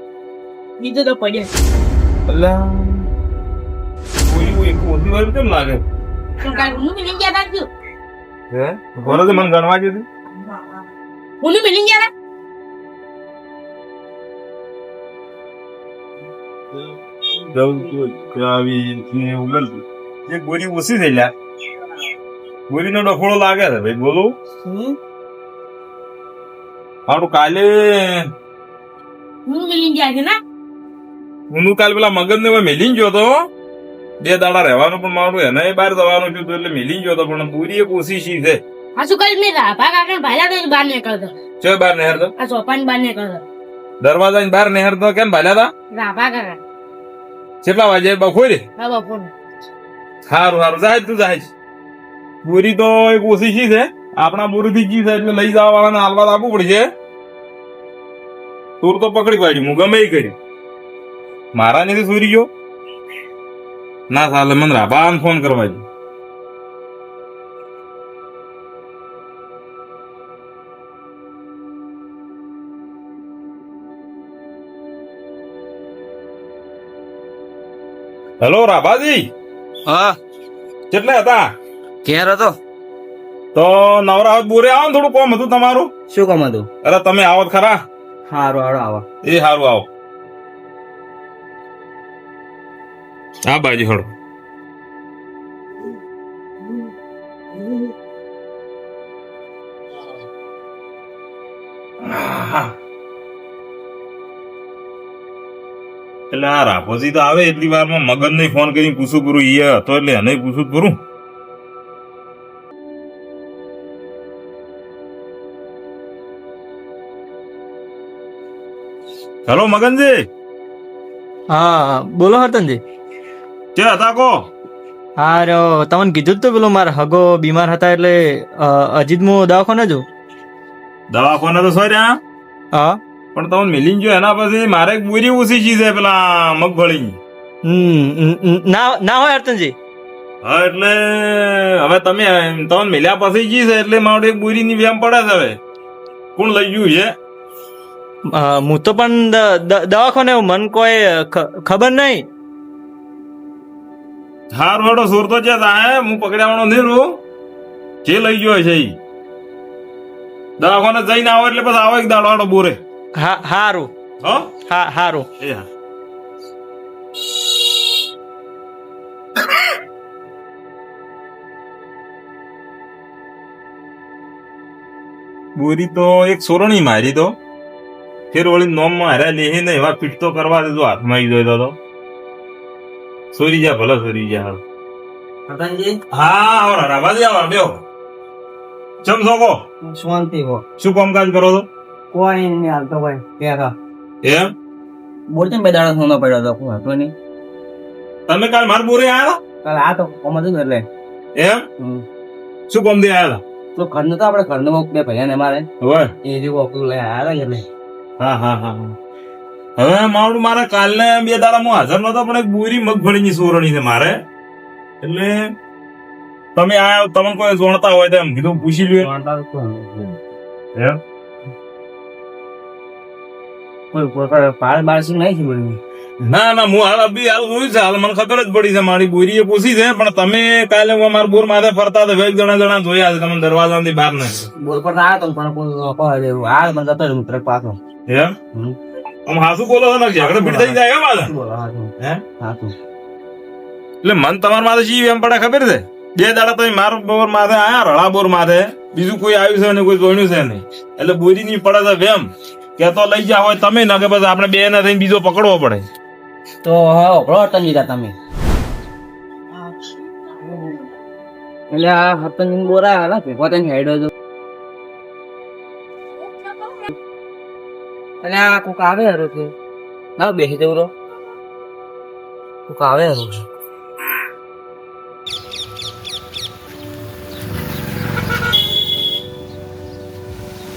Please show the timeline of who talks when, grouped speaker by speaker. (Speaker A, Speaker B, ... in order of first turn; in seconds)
Speaker A: 0.8-1.5, 6.4-7.7, 11.4-12.1, 29.5-30.4, 39.0-41.3, 42.4-43.4, 45.9-46.6, 48.8-49.3
Speaker B: 2.3-3.1, 4.3-5.8, 8.6-10.1, 17.5-21.3, 22.7-24.4, 27.1-27.7, 31.5-33.3, 34.2-38.6, 41.6-42.3, 44.0-45.7, 47.6-48.6, 50.3-51.5, 52.4-56.9, 58.8-60.4, 61.5-62.5, 64.1-65.8, 78.4-79.3, 80.9-81.4, 83.5-85.9, 86.8-87.8, 89.2-89.9, 93.5-94.1, 102.0-102.7, 106.3-111.0, 119.5-120.3, 123.8-124.5, 131.1-132.2, 133.3-137.2, 140.4-145.6, 146.4-147.1, 154.5-157.2, 158.1-159.0, 160.6-162.8, 164.2-164.5, 165.4-165.7, 175.6-177.3, 178.3-181.8, 183.3-184.6, 186.1-187.8, 189.0-189.6, 190.8-191.7, 194.2-194.5, 198.3-199.4, 201.4-201.7, 202.7-203.4, 205.8-206.1, 208.2-209.0, 209.8-214.2, 215.0-215.4, 216.6-219.1, 226.2-234.5, 238.1-238.3, 239.3-241.3, 244.0-255.8
Speaker C: 79.9-80.1, 82.0-82.5, 86.1-86.7, 88.3-89.0, 185.5-186.0, 189.9-190.6, 192.1-193.7, 195.3-197.1, 199.6-200.9, 203.8-205.7, 206.2-207.7, 219.0-220.2, 223.9-225.8, 234.6-237.8, 240.2-240.8, 241.3-242.7, 256.6-258.1, 261.7-264.1, 268.2-269.5, 270.2-270.9, 272.7-273.4
Speaker D: 121.5-122.8, 125.2-130.1, 132.7-133.0, 137.7-139.8, 148.3-152.3, 163.2-163.9, 164.7-165.3